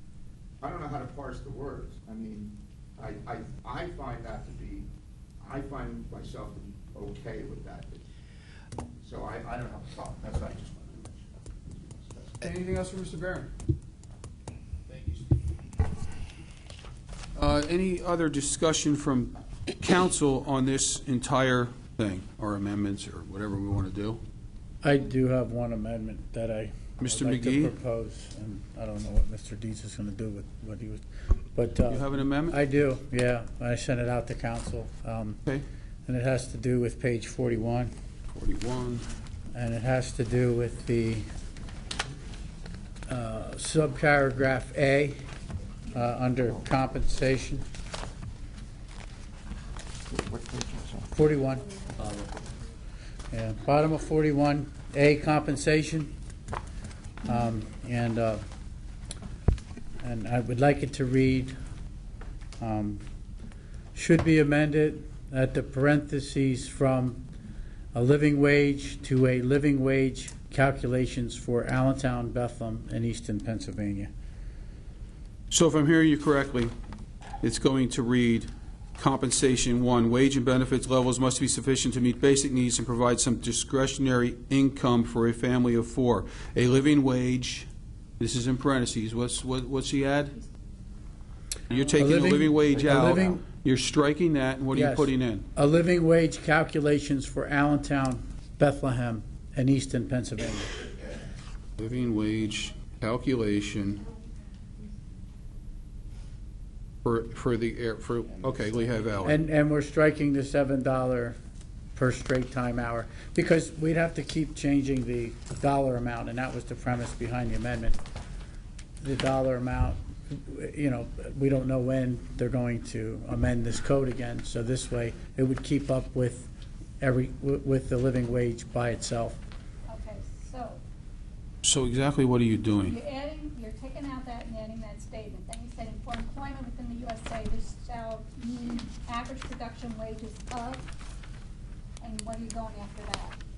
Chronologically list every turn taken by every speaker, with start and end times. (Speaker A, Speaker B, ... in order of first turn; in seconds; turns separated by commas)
Speaker A: 0.6-4.9, Speaker A: 5.4-8.0, Speaker A: 9.0-12.4, Speaker B: 12.4-13.5, Speaker B: 14.9-15.3, Speaker B: 17.4-24.2, Speaker C: 24.8-31.0, Speaker B: 27.0-27.7, Speaker C: 31.5-35.4, Speaker B: 31.9-32.6, Speaker C: 36.1-37.9, Speaker B: 38.3-39.1, Speaker C: 39.5-41.3, Speaker C: 43.1-45.2, Speaker C: 45.9-47.6, Speaker A: 50.1-51.1, Speaker C: 51.1-51.6, Speaker D: 51.7-52.1, Speaker C: 53.3-56.1, Speaker C: 57.2-58.4, Speaker C: 60.0-61.5, Speaker C: 62.6-63.0, Speaker C: 63.9-67.2, Speaker C: 67.9-74.1, Speaker B: 75.5-76.7, Speaker B: 77.4-87.7, Speaker B: 88.2-90.4, Speaker B: 91.7-95.5, Speaker C: 92.0-93.4, Speaker C: 94.7-100.8, Speaker B: 101.8-104.0, Speaker B: 107.0-109.4, Speaker A: 108.4-108.9, Speaker C: 109.2-111.3, Speaker C: 111.9-118.0, Speaker C: 119.0-129.4, Speaker D: 129.9-130.8, Speaker B: 131.6-133.0, Speaker D: 132.8-140.9, Speaker D: 142.0-143.4